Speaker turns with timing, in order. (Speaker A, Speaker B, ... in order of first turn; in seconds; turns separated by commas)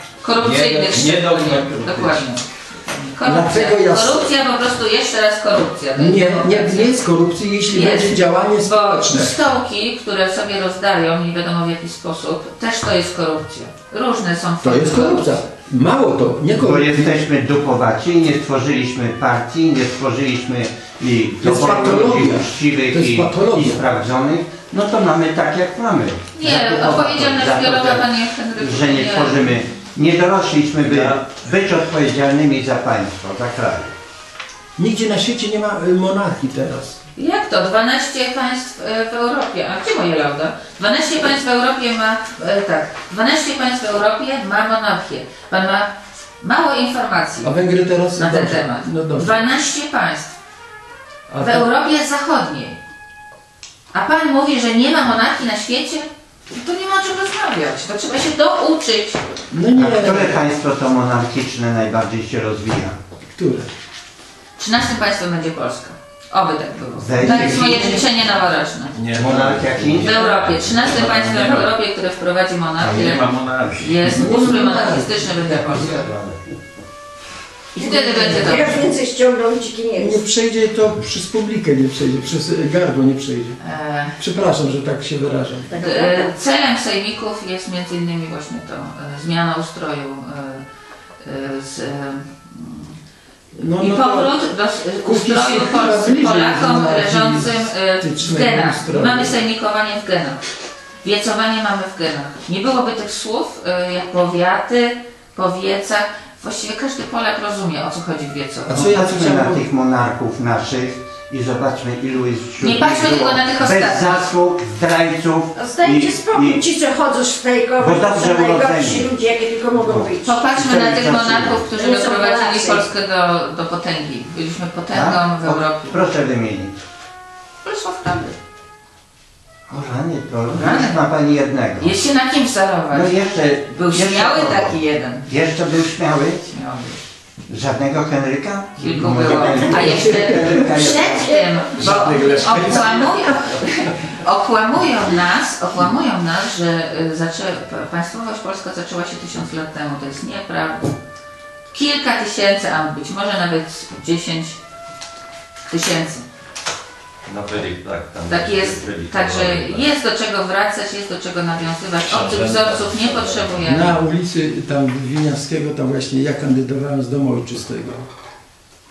Speaker A: 0.2-7.0, Speaker B: 0.4-2.3, Speaker C: 3.2-4.3, Speaker C: 6.0-9.4, Speaker A: 7.7-15.4, Speaker C: 14.6-17.3, Speaker D: 16.6-33.9, Speaker C: 21.4-23.8, Speaker A: 26.3-29.6, Speaker B: 30.8-31.2, Speaker C: 34.8-37.0, Speaker A: 37.2-47.6, Speaker C: 47.4-49.3, Speaker A: 48.2-50.4, Speaker C: 51.3-51.7, Speaker A: 51.4-52.8, Speaker A: 53.9-59.2, Speaker C: 59.5-60.4, Speaker D: 59.8-63.0, Speaker C: 63.4-63.7, Speaker A: 64.6-69.0, Speaker D: 67.0-68.1, Speaker C: 67.2-67.5, Speaker B: 68.9-71.7, Speaker D: 69.1-70.1, Speaker A: 70.0-76.1, Speaker D: 72.8-73.2, Speaker B: 72.8-74.5, Speaker C: 74.0-76.1, Speaker D: 75.8-76.4, Speaker A: 77.8-78.8, Speaker E: 77.8-80.2, Speaker C: 80.0-83.6, Speaker A: 83.6-84.2, Speaker C: 84.2-85.8, Speaker E: 85.7-86.4, Speaker A: 85.8-90.6, Speaker A: 91.2-93.0, Speaker C: 93.5-94.4, Speaker A: 93.8-100.4, Speaker C: 95.0-99.4, Speaker A: 101.0-109.0, Speaker C: 108.7-109.6, Speaker D: 108.7-116.6, Speaker A: 112.6-114.3, Speaker E: 115.5-120.5, Speaker D: 117.8-119.1, Speaker D: 119.7-121.7, Speaker A: 120.2-126.0, Speaker E: 121.7-122.8, Speaker D: 124.9-126.8, Speaker A: 127.6-128.4, Speaker D: 129.7-131.9, Speaker A: 130.5-131.1, Speaker A: 131.8-135.3, Speaker D: 132.9-136.5, Speaker A: 136.5-137.0, Speaker D: 137.5-142.9, Speaker A: 138.8-151.0, Speaker C: 139.6-141.0, Speaker E: 140.6-141.9, Speaker C: 141.8-142.9, Speaker B: 142.0-142.8, Speaker A: 151.7-154.6, Speaker A: 155.7-156.3, Speaker B: 157.3-159.9, Speaker A: 158.3-164.0, Speaker B: 162.1-163.5, Speaker C: 163.7-168.1